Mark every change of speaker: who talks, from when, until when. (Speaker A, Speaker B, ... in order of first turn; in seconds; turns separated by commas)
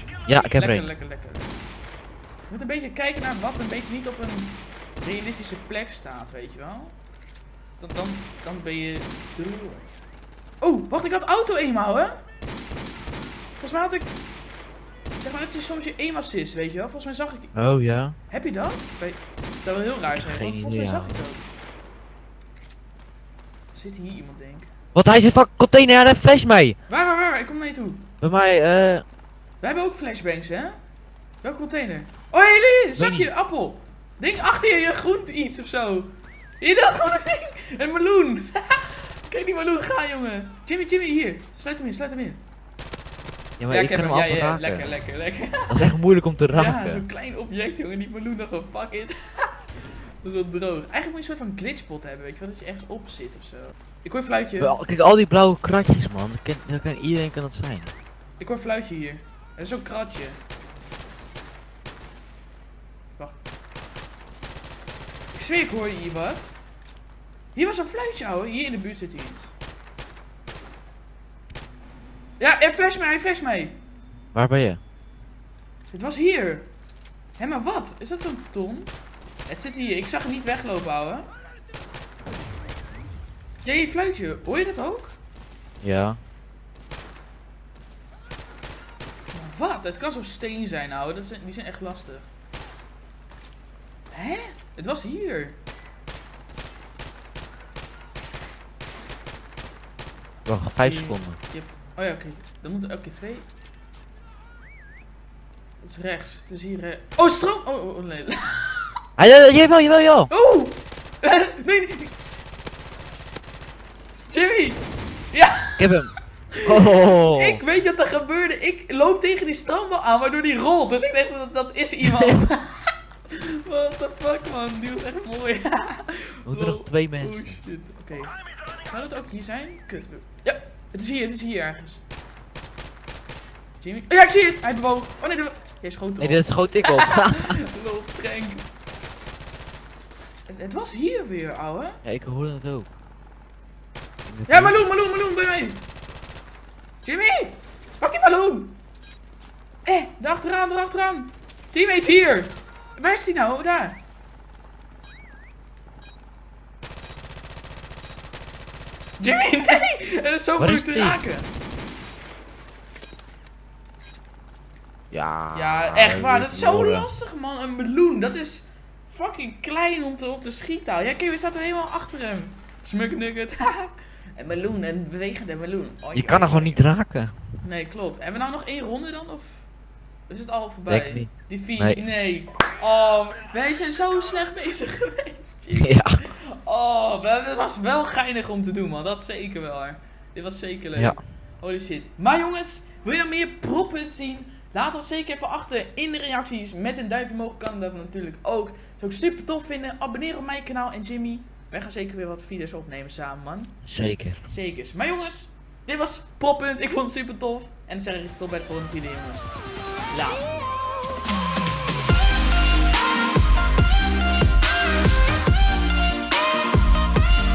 Speaker A: 0.2-1.6, Speaker B: 0.2-0.9, Speaker A: 2.5-7.0, Speaker A: 7.8-9.9, Speaker A: 10.6-12.2, Speaker A: 13.6-14.1, Speaker A: 15.2-17.5, Speaker B: 17.5-18.1, Speaker A: 18.3-21.6, Speaker B: 20.1-21.2, Speaker A: 23.7-24.7, Speaker B: 24.9-26.8, Speaker A: 26.9-28.1, Speaker B: 28.2-29.0, Speaker A: 29.6-30.8, Speaker A: 31.4-42.4, Speaker B: 33.0-33.3, Speaker B: 43.6-44.9, Speaker A: 43.7-46.0, Speaker B: 45.7-47.0, Speaker A: 46.5-49.7, Speaker A: 50.2-54.7, Speaker B: 54.6-57.9, Speaker A: 58.4-60.4, Speaker A: 65.3-66.5, Speaker A: 67.5-69.5, Speaker A: 72.4-73.8, Speaker B: 74.3-74.8, Speaker A: 75.9-76.7, Speaker A: 77.4-78.9, Speaker A: 79.5-81.2, Speaker A: 83.6-85.2, Speaker B: 85.8-86.2, Speaker A: 89.3-92.3, Speaker A: 94.1-95.5, Speaker B: 100.5-101.4, Speaker A: 100.8-103.5, Speaker A: 105.8-108.9, Speaker B: 109.2-110.3, Speaker A: 110.3-112.1, Speaker A: 114.2-115.9, Speaker B: 115.8-116.1, Speaker B: 116.6-117.6, Speaker A: 117.3-128.3, Speaker B: 122.0-122.4, Speaker B: 126.5-127.6, Speaker A: 128.8-132.0, Speaker A: 133.8-138.6, Speaker B: 136.2-137.6, Speaker A: 140.5-142.0, Speaker B: 142.0-142.9, Speaker B: 144.2-144.8, Speaker A: 144.5-145.8, Speaker A: 147.0-148.7, Speaker A: 149.8-154.0, Speaker A: 159.2-161.5, Speaker B: 160.6-161.2, Speaker B: 165.1-167.1, Speaker A: 165.5-176.8, Speaker B: 176.1-177.4, Speaker A: 177.6-179.7, Speaker A: 180.3-203.8, Speaker B: 180.9-182.0, Speaker B: 185.7-186.2, Speaker B: 203.8-204.4, Speaker A: 204.4-209.5, Speaker A: 210.1-211.2